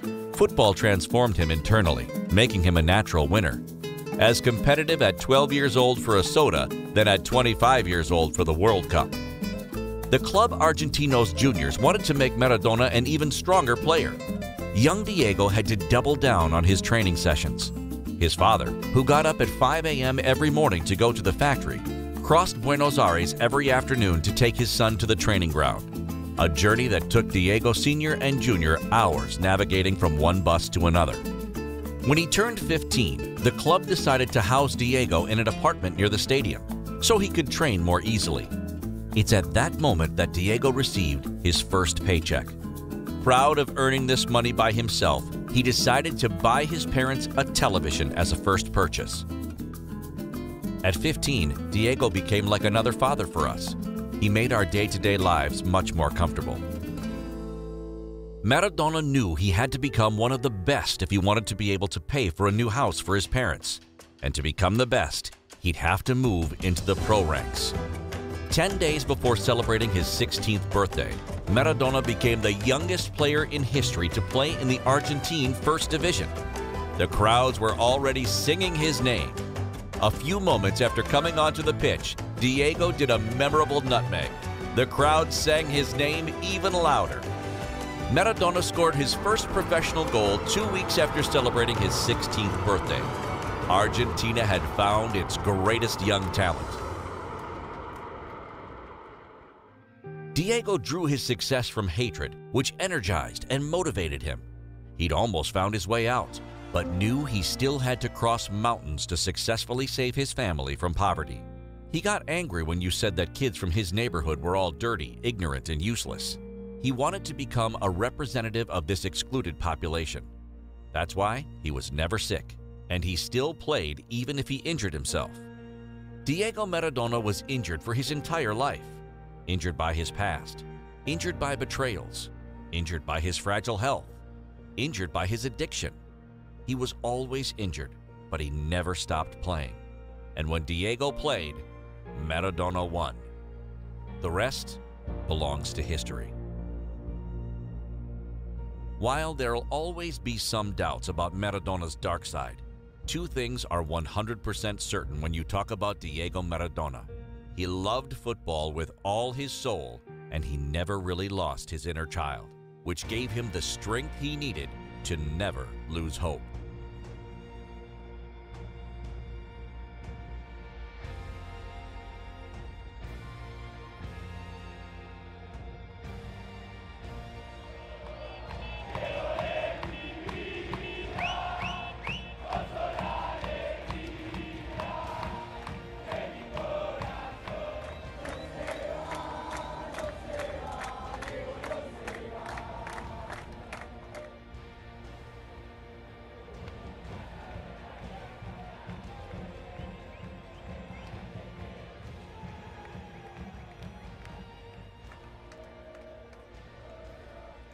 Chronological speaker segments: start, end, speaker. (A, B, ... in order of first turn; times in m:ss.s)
0:00.3-0:03.6 A
0:04.2-0:09.2 A
0:10.1-0:14.2 A
0:14.7-0:31.2 A
0:32.0-0:38.5 A
0:39.1-0:42.6 A
0:43.2-0:49.3 A
0:50.8-0:56.6 A
0:58.4-1:07.8 A
1:08.5-1:16.4 A
1:17.0-1:19.4 A
1:20.0-1:27.3 A
1:28.1-1:33.1 A
1:33.7-1:36.8 A
1:40.3-2:00.3 A
2:00.9-2:05.5 A
2:06.2-2:14.2 A
2:14.8-2:16.0 A
2:16.7-2:19.8 A
2:20.4-2:23.3 A
2:24.2-2:26.4 A
2:29.0-2:46.5 A